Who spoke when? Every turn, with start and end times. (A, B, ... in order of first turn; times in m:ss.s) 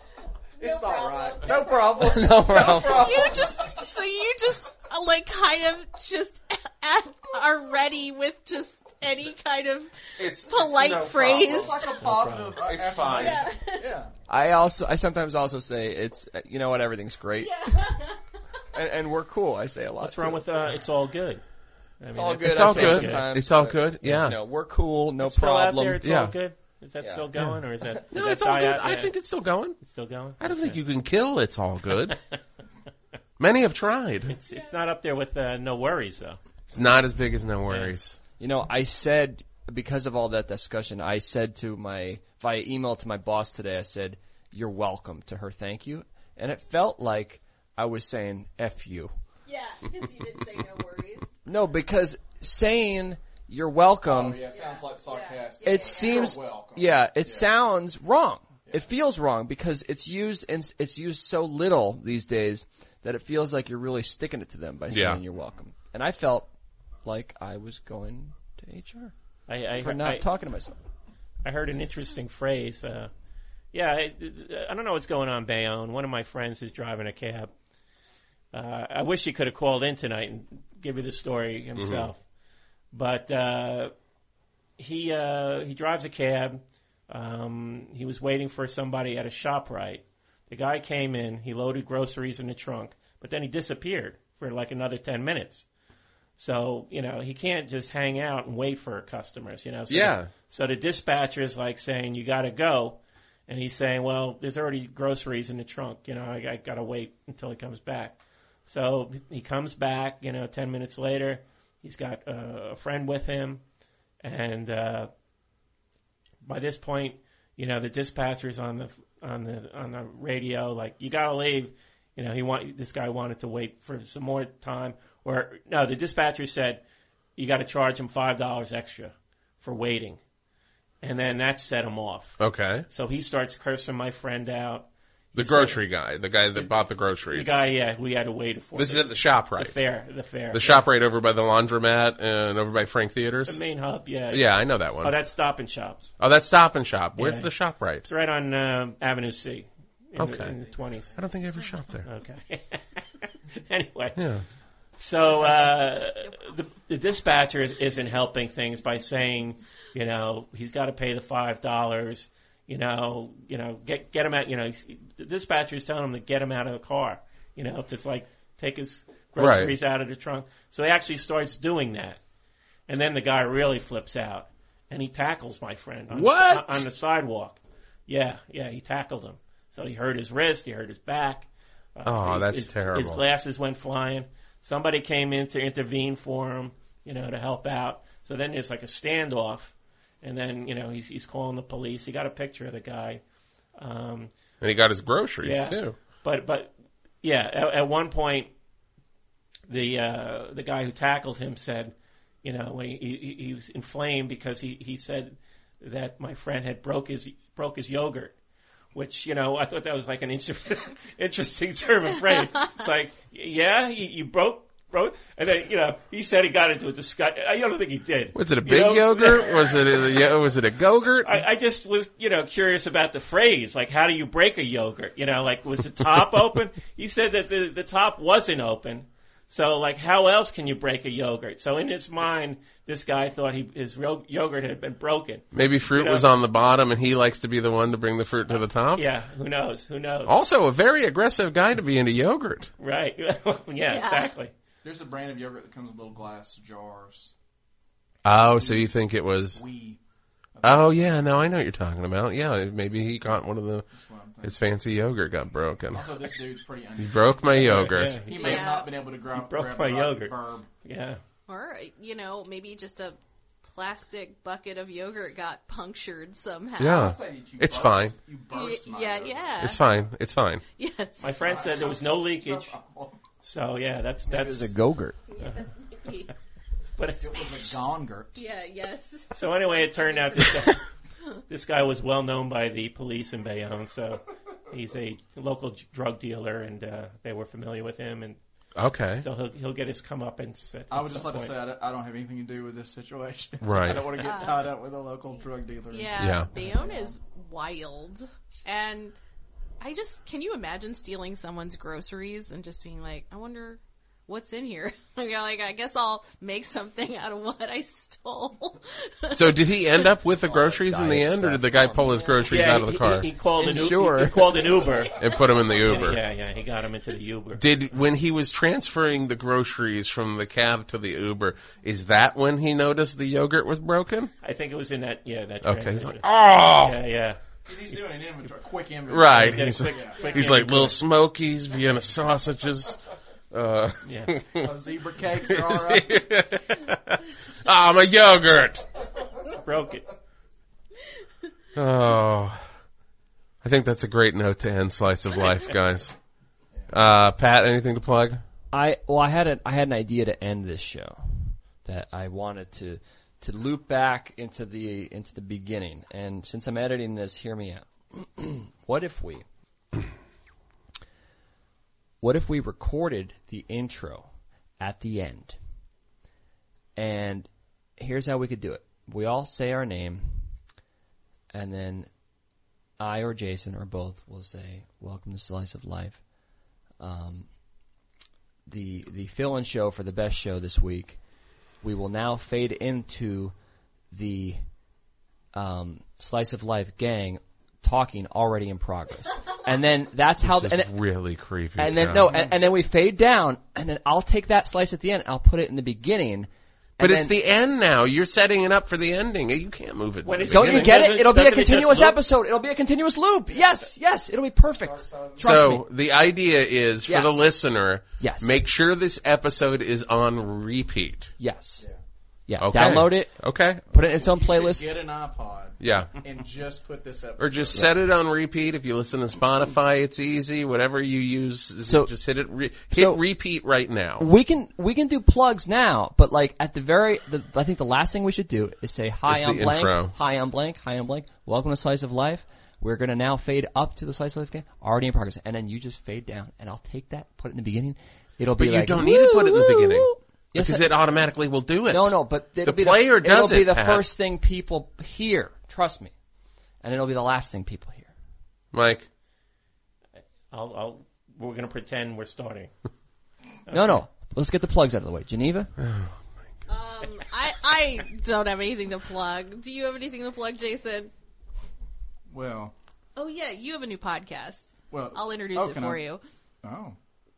0:00.6-0:12.0 A
0:00.6-0:03.8 B
0:02.0-0:03.3 C
0:10.2-0:11.9 D
0:11.3-0:14.1 B
0:12.0-0:12.6 E
0:12.5-0:13.5 D
0:13.1-0:13.9 A
0:14.3-0:17.5 C
0:17.4-0:18.2 A
0:18.7-0:20.4 C
0:20.0-0:21.4 E
0:22.0-0:23.2 E
0:22.1-0:26.0 C
0:22.4-0:24.4 D
0:25.2-0:29.1 E
0:26.0-0:26.3 D
0:27.0-0:27.3 C
0:28.1-0:29.8 D
0:29.8-0:30.8 E
0:30.4-0:32.2 D
0:32.1-0:32.3 E
0:33.4-0:34.3 D
0:34.3-0:36.4 E
0:34.5-0:34.8 A
0:36.7-0:38.2 D
0:37.7-0:37.9 E
0:38.4-0:49.1 C
0:49.4-0:51.3 A
0:51.4-0:54.4 C
0:54.0-0:57.5 B
0:54.4-0:56.4 A
0:55.6-1:06.5 C
1:04.9-1:05.2 D
1:07.0-1:09.1 C
1:09.5-1:10.3 E
1:09.7-1:10.7 C
1:11.4-1:13.1 E
1:13.7-1:17.5 E
1:18.5-1:22.2 E
1:21.8-1:22.1 D
1:22.9-1:23.9 E
1:24.8-1:35.7 E
1:36.4-1:53.6 E
1:39.9-1:40.3 D
1:54.2-1:55.1 E
1:56.4-2:06.8 E
2:07.4-2:10.2 E
2:11.0-2:15.8 E
2:12.4-2:12.8 D
2:15.4-2:17.5 D
2:17.3-2:20.9 E
2:18.8-2:19.8 D
2:20.5-2:23.6 D
2:23.5-2:26.1 E
2:24.3-2:25.1 D
2:26.2-2:28.1 D
2:27.2-2:31.1 E
2:30.2-2:30.5 D
2:31.1-2:32.1 D
2:32.0-2:34.2 E
2:34.2-2:34.4 D
2:35.0-2:52.2 E
2:49.4-2:49.7 D
2:52.9-3:13.2 E
2:56.1-2:56.8 D
3:02.0-3:03.2 D
3:13.8-3:14.3 E
3:14.6-3:16.0 D
3:15.4-3:18.5 E
3:19.7-3:28.3 E
3:28.9-3:39.8 E
3:38.3-3:41.4 D
3:41.2-3:56.3 E
3:55.5-3:59.0 D
3:58.9-4:00.3 E
4:00.3-4:02.7 D
4:02.8-4:04.5 E
4:03.8-4:04.3 A
4:04.8-4:07.3 B
4:08.2-4:09.6 D
4:08.4-4:08.9 B
4:09.5-4:10.0 B
4:10.6-4:11.3 B
4:10.6-4:13.9 D
4:13.9-4:14.6 B
4:14.4-4:16.2 D
4:15.9-4:20.7 B
4:17.0-4:18.2 D
4:17.5-4:18.8 E
4:18.3-4:18.9 A
4:19.3-4:21.2 E
4:21.5-4:27.1 A
4:26.8-4:28.2 D
4:26.9-4:29.6 B
4:28.5-4:29.8 A
4:29.6-4:30.6 D
4:30.8-4:31.6 A
4:31.2-4:32.7 E
4:31.4-4:33.2 B
4:33.4-4:34.7 E
4:34.3-4:35.2 C
4:35.3-4:36.3 A
4:35.4-4:35.7 E
4:37.0-4:37.6 E
4:37.2-4:38.3 B
4:37.4-4:37.8 A
4:38.3-4:40.5 A
4:39.3-4:40.8 E
4:41.5-4:48.4 E
4:48.8-4:49.2 D
4:49.2-4:51.6 E
4:50.9-4:57.1 B
4:53.6-4:54.2 D
4:54.2-4:54.7 A
4:55.9-4:59.1 A
4:56.2-4:56.5 D
4:59.8-5:10.1 A
5:09.3-5:13.3 D
5:10.4-5:12.5 C
5:12.4-5:15.2 E
5:13.6-5:14.8 C
5:14.9-5:15.6 A
5:15.1-5:16.2 D
5:15.8-5:17.6 E
5:17.6-5:24.3 D
5:24.4-5:27.4 E
5:25.6-5:27.0 D
5:27.6-5:30.3 B
5:29.1-5:33.0 D
5:29.3-5:31.0 E
5:33.5-5:34.7 D
5:34.0-5:34.3 E
5:34.6-5:36.2 B
5:35.4-5:38.8 D
5:39.6-5:40.0 E
5:41.7-5:42.6 D
5:43.6-5:46.1 D
5:46.9-5:48.4 D
5:48.7-5:59.4 C
6:02.2-6:04.3 C
6:04.8-6:05.6 C
6:07.0-6:10.5 C
6:11.5-6:12.1 C
6:13.0-6:16.2 C
6:17.0-6:17.5 C
6:18.7-6:21.2 C
6:21.8-6:23.5 C
6:24.1-6:24.6 C
6:25.5-6:30.9 C
6:30.4-6:32.3 D
6:31.8-6:37.3 C
6:32.3-6:32.5 B
6:37.0-6:41.0 D
6:40.2-6:42.2 E
6:40.5-6:45.8 C
6:44.7-6:45.6 B
6:45.4-6:51.3 D
6:47.1-6:47.5 C
6:48.2-6:48.6 C
6:51.4-6:51.8 C
6:52.5-6:55.0 C
6:52.6-6:53.9 D
6:54.0-6:57.9 B
6:55.8-6:56.2 D
6:57.4-7:04.3 D
7:01.8-7:02.1 C
7:02.9-7:03.2 C
7:04.2-7:21.0 C
7:09.3-7:10.1 D
7:18.6-7:24.1 D
7:21.9-7:26.1 C
7:26.8-7:28.1 C
7:28.7-7:29.1 D
7:30.5-7:32.7 E
7:33.7-7:35.7 C
7:35.8-7:36.1 D
7:36.7-7:41.1 A
7:42.3-7:42.7 B
7:43.2-7:46.2 A
7:44.9-7:46.0 B
7:46.6-7:47.0 B